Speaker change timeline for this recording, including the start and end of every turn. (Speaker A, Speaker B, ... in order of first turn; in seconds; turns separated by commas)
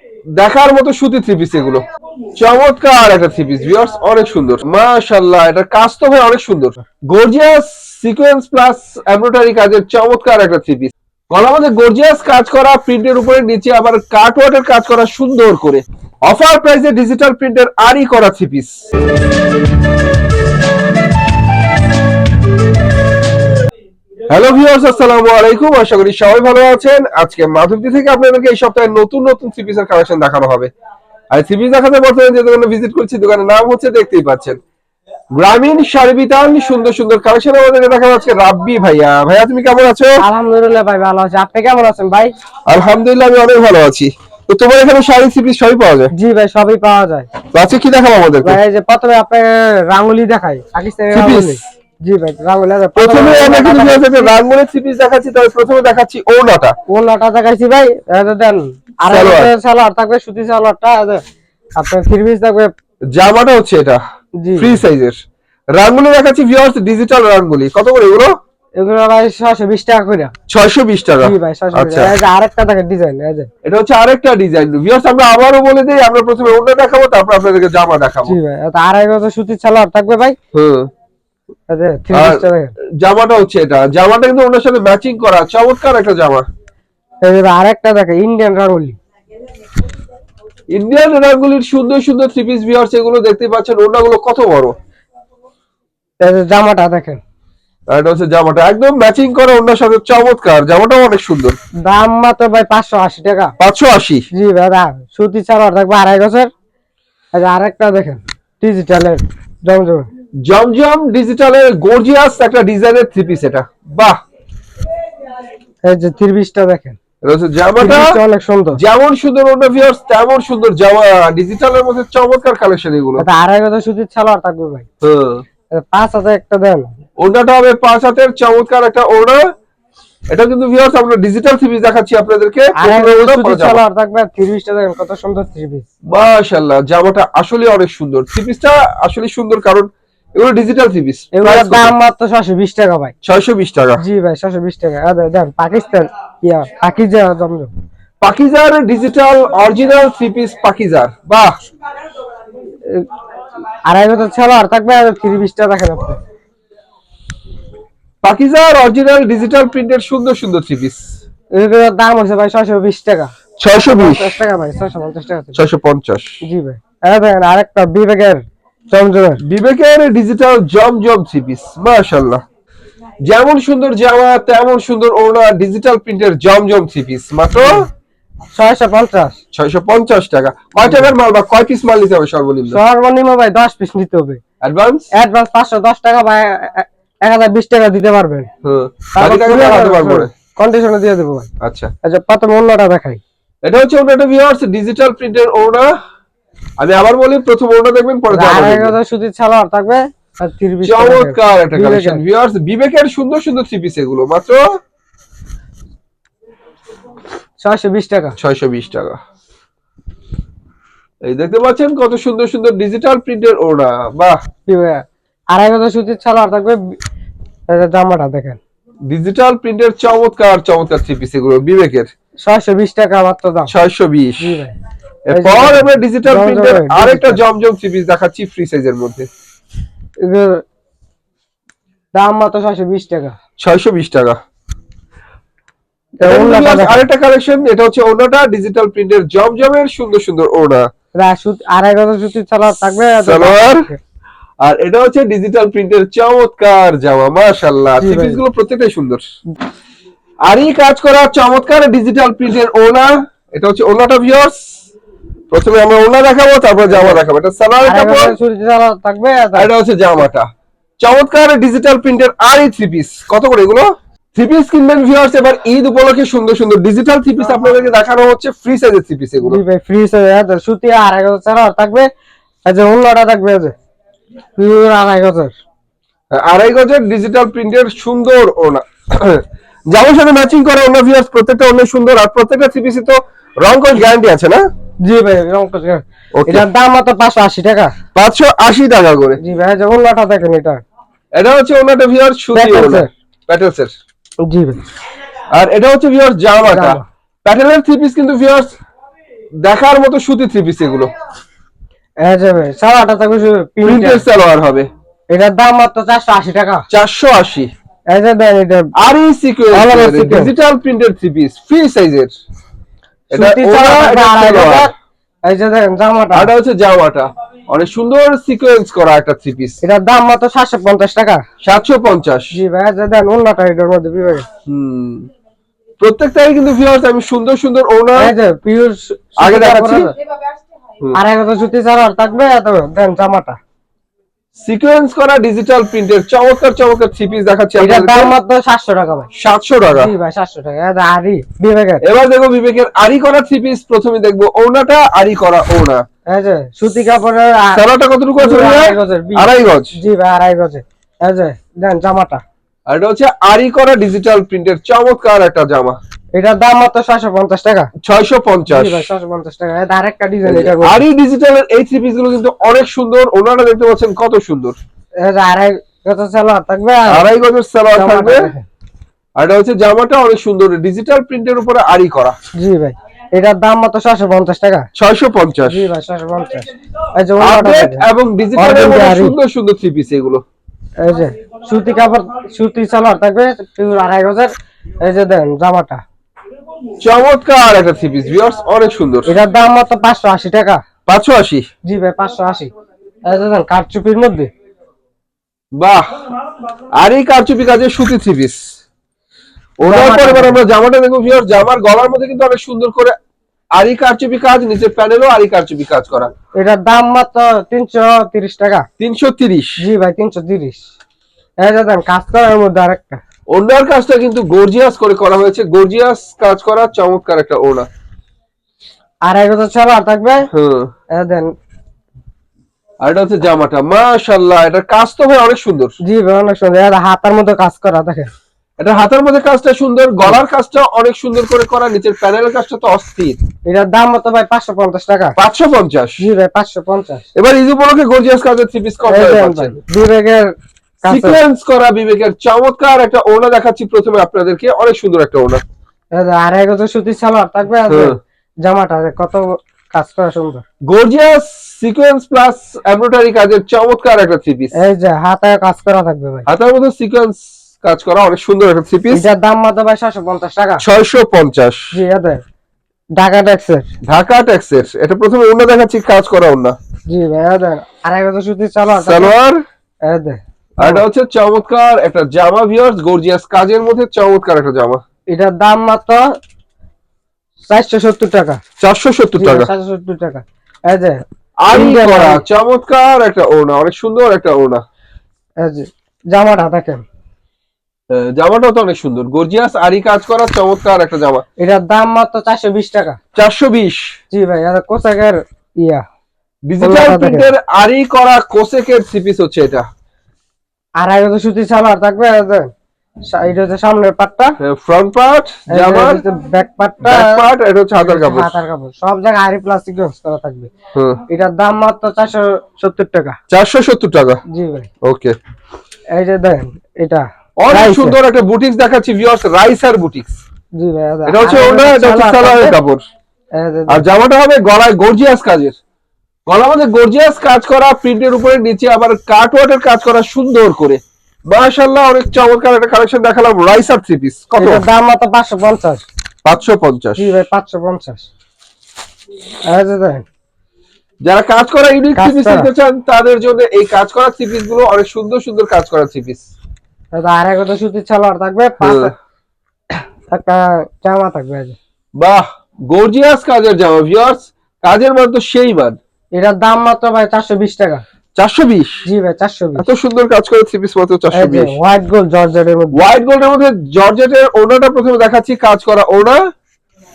Speaker A: 0.4-1.8, Speaker A: 2.4-18.8, Speaker A: 24.3-30.7, Speaker A: 31.3-34.6, Speaker A: 35.4-40.1, Speaker B: 40.2-42.3, Speaker A: 42.7-46.1, Speaker B: 46.2-47.4, Speaker A: 47.4-48.6, Speaker B: 48.4-54.4, Speaker A: 51.1-51.6, Speaker A: 53.0-56.8, Speaker B: 56.9-61.2, Speaker A: 59.1-59.5, Speaker B: 61.8-62.7, Speaker A: 63.1-64.0, Speaker B: 64.4-64.8, Speaker A: 64.6-65.2, Speaker A: 65.8-68.3, Speaker B: 68.8-70.3, Speaker A: 70.5-72.2, Speaker B: 71.2-73.5, Speaker A: 73.6-78.4, Speaker B: 78.3-80.4, Speaker A: 80.5-80.9, Speaker B: 81.7-82.7, Speaker A: 82.1-86.5, Speaker B: 87.2-89.0, Speaker A: 90.7-94.8, Speaker B: 96.2-97.2, Speaker A: 97.9-101.6, Speaker B: 101.8-103.5, Speaker A: 103.6-104.2, Speaker B: 104.3-106.5, Speaker B: 107.3-110.1, Speaker A: 110.5-114.2, Speaker B: 115.9-117.0, Speaker A: 117.2-118.2, Speaker B: 117.8-118.8, Speaker A: 118.8-123.2, Speaker B: 123.2-124.9, Speaker A: 125.0-125.4, Speaker B: 125.7-126.9, Speaker A: 127.2-129.4, Speaker A: 130.3-133.8, Speaker B: 132.8-135.9, Speaker A: 136.1-142.0, Speaker B: 141.3-143.1, Speaker A: 143.2-144.0, Speaker B: 144.0-147.7, Speaker A: 148.2-151.5, Speaker B: 153.9-156.2, Speaker A: 158.2-161.1, Speaker B: 161.6-165.6, Speaker A: 163.6-164.3, Speaker A: 165.5-166.4, Speaker B: 166.4-169.4, Speaker A: 169.4-172.4, Speaker A: 173.2-177.8, Speaker B: 177.6-177.9, Speaker B: 178.6-179.4, Speaker A: 179.5-182.8, Speaker B: 182.7-184.4, Speaker A: 184.6-185.1, Speaker B: 185.1-188.5, Speaker A: 188.6-190.3, Speaker B: 189.1-191.5, Speaker A: 191.6-191.9, Speaker B: 192.0-193.2, Speaker A: 193.6-195.9, Speaker A: 196.8-199.0, Speaker B: 198.3-202.2, Speaker A: 200.8-204.6, Speaker B: 207.6-208.4, Speaker A: 208.4-209.2, Speaker A: 211.3-214.4, Speaker B: 214.7-217.0, Speaker B: 217.7-218.6, Speaker A: 219.1-222.1, Speaker B: 222.5-223.7, Speaker A: 223.7-224.5, Speaker B: 224.4-224.7, Speaker A: 225.3-229.3, Speaker B: 225.3-227.4, Speaker B: 230.2-230.6, Speaker B: 232.2-233.4, Speaker A: 233.6-234.4, Speaker B: 236.2-237.1, Speaker A: 236.2-240.8, Speaker B: 241.2-244.0, Speaker A: 242.9-243.9, Speaker A: 244.6-249.2, Speaker B: 248.0-248.4, Speaker A: 250.5-254.8, Speaker A: 255.5-258.4, Speaker B: 256.9-257.2, Speaker B: 257.8-259.7, Speaker A: 259.6-260.5, Speaker A: 261.0-269.6, Speaker B: 269.4-272.1, Speaker B: 272.7-273.7, Speaker B: 274.6-275.5, Speaker A: 276.3-284.6, Speaker B: 285.1-288.0, Speaker A: 288.1-289.4, Speaker B: 289.4-290.8, Speaker A: 291.4-293.9, Speaker B: 292.5-293.1, Speaker B: 294.5-294.8, Speaker A: 295.6-298.7, Speaker B: 296.7-297.0, Speaker A: 299.6-301.1, Speaker B: 302.2-304.3, Speaker A: 303.9-304.9, Speaker B: 305.3-306.9, Speaker A: 306.9-307.7, Speaker B: 308.1-308.9, Speaker A: 309.0-312.3, Speaker B: 309.7-310.5, Speaker A: 313.3-314.9, Speaker B: 313.3-314.9, Speaker B: 315.5-316.5, Speaker A: 316.3-319.8, Speaker B: 319.8-321.4, Speaker A: 321.6-322.5, Speaker B: 322.5-324.5, Speaker A: 324.7-325.3, Speaker A: 326.0-328.3, Speaker B: 328.2-330.1, Speaker A: 329.4-330.1, Speaker B: 331.1-333.6, Speaker A: 334.6-338.4, Speaker B: 337.8-339.3, Speaker A: 339.3-340.1, Speaker B: 339.8-342.1, Speaker A: 342.0-346.0, Speaker B: 346.3-347.9, Speaker A: 347.7-349.9, Speaker B: 348.4-352.4, Speaker A: 352.9-356.0, Speaker B: 356.4-357.9, Speaker A: 358.0-359.1, Speaker B: 358.7-361.1, Speaker A: 360.5-364.8, Speaker B: 365.2-367.2, Speaker A: 367.1-368.5, Speaker B: 367.9-368.7, Speaker A: 369.4-372.4, Speaker B: 372.6-374.9, Speaker A: 375.0-375.9, Speaker B: 375.7-379.4, Speaker A: 377.4-380.4, Speaker B: 381.0-384.5, Speaker B: 385.0-386.0, Speaker A: 387.0-389.3, Speaker B: 389.3-390.8, Speaker A: 391.1-391.6, Speaker B: 391.9-392.7, Speaker B: 393.3-394.5, Speaker A: 395.8-396.1, Speaker A: 397.0-398.6, Speaker A: 399.8-403.2, Speaker B: 399.8-400.6, Speaker A: 403.8-406.3, Speaker B: 406.6-408.9, Speaker A: 409.0-409.8, Speaker B: 409.8-410.8, Speaker B: 411.6-413.2, Speaker A: 413.5-417.9, Speaker B: 419.3-420.5, Speaker A: 420.5-420.9, Speaker B: 421.2-421.5, Speaker A: 423.0-425.9, Speaker B: 426.0-428.3, Speaker A: 428.8-433.4, Speaker B: 433.7-435.4, Speaker A: 435.4-436.2, Speaker B: 436.2-437.3, Speaker A: 437.4-439.8, Speaker B: 439.0-440.5, Speaker B: 441.0-441.4, Speaker A: 441.1-445.6, Speaker B: 446.2-450.6, Speaker A: 447.9-448.2, Speaker A: 450.9-454.7, Speaker B: 454.7-456.5, Speaker A: 456.5-459.2, Speaker B: 459.1-460.8, Speaker A: 460.8-461.9, Speaker B: 461.9-462.4, Speaker B: 463.2-463.9, Speaker A: 464.1-466.8, Speaker B: 467.1-469.4, Speaker A: 469.0-469.6, Speaker B: 470.1-471.0, Speaker A: 470.8-475.0, Speaker B: 475.3-476.2, Speaker B: 477.7-478.6, Speaker A: 478.8-479.7, Speaker B: 479.4-482.4, Speaker A: 481.6-484.8, Speaker B: 485.6-487.0, Speaker A: 488.1-491.4, Speaker B: 491.6-493.2, Speaker A: 493.4-494.1, Speaker B: 494.3-496.0, Speaker A: 496.7-499.9, Speaker B: 496.8-497.5, Speaker B: 501.0-502.7, Speaker B: 503.3-504.5, Speaker A: 504.6-506.2, Speaker B: 505.7-510.7, Speaker A: 507.0-508.6, Speaker A: 510.9-511.2, Speaker B: 511.3-513.4, Speaker A: 513.5-514.4, Speaker B: 514.5-514.9, Speaker A: 515.0-515.3, Speaker B: 516.2-518.2, Speaker A: 517.6-520.4, Speaker B: 520.8-522.8, Speaker A: 521.3-523.0, Speaker B: 523.6-524.0, Speaker A: 523.9-525.8, Speaker A: 526.5-534.9, Speaker B: 534.6-536.0, Speaker A: 536.4-537.4, Speaker B: 537.2-538.3, Speaker B: 539.7-540.2, Speaker A: 541.2-546.4, Speaker B: 542.1-542.7, Speaker B: 547.1-549.1, Speaker A: 548.8-549.1, Speaker B: 549.9-551.8, Speaker A: 552.2-556.0, Speaker B: 556.4-558.0, Speaker A: 558.4-559.0, Speaker B: 559.0-559.9, Speaker A: 559.8-561.8, Speaker B: 561.3-563.0, Speaker A: 562.9-566.4